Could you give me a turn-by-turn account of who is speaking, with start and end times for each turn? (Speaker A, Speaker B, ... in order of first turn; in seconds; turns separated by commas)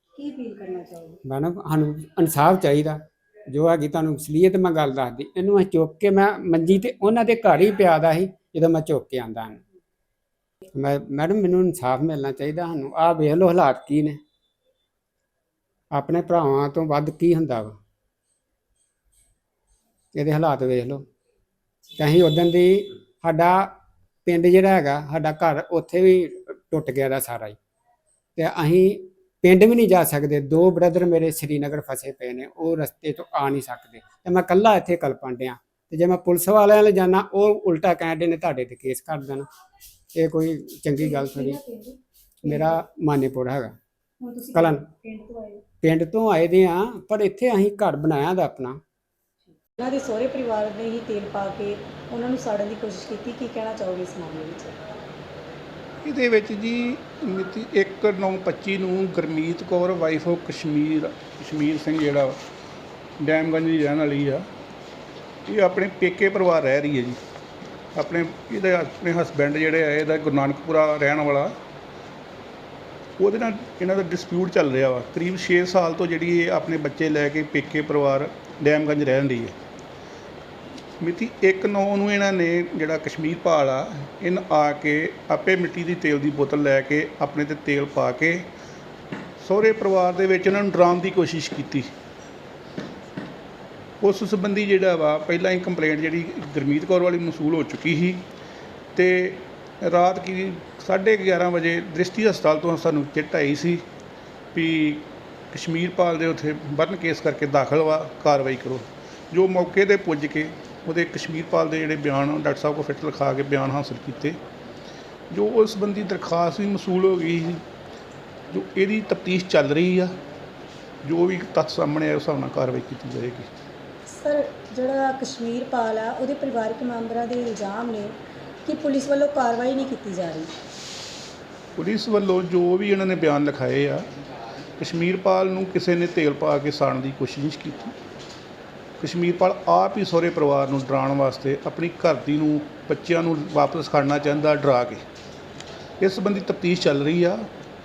Speaker A: 0.1-1.2, Speaker B: 1.2-9.6, Speaker B: 10.7-14.2, Speaker B: 15.9-17.8, Speaker B: 20.1-21.1, Speaker B: 21.9-27.6, Speaker B: 28.4-39.5, Speaker B: 40.1-41.6, Speaker A: 41.0-42.8, Speaker B: 42.4-43.8, Speaker A: 44.2-45.7, Speaker B: 44.5-44.9, Speaker B: 45.8-48.8, Speaker A: 49.7-54.8, Speaker C: 56.0-62.4, Speaker C: 63.2-64.4, Speaker C: 65.5-67.2, Speaker C: 68.0-71.5, Speaker C: 73.2-79.5, Speaker C: 81.0-88.4, Speaker C: 89.4-91.9, Speaker C: 94.0-98.2, Speaker C: 98.9-103.8, Speaker C: 104.5-114.4, Speaker C: 115.3-117.6, Speaker C: 118.5-120.1, Speaker C: 121.0-123.5, Speaker A: 124.0-130.5, Speaker C: 131.8-134.1, Speaker C: 134.8-137.9, Speaker C: 139.0-145.0, Speaker C: 146.0-147.5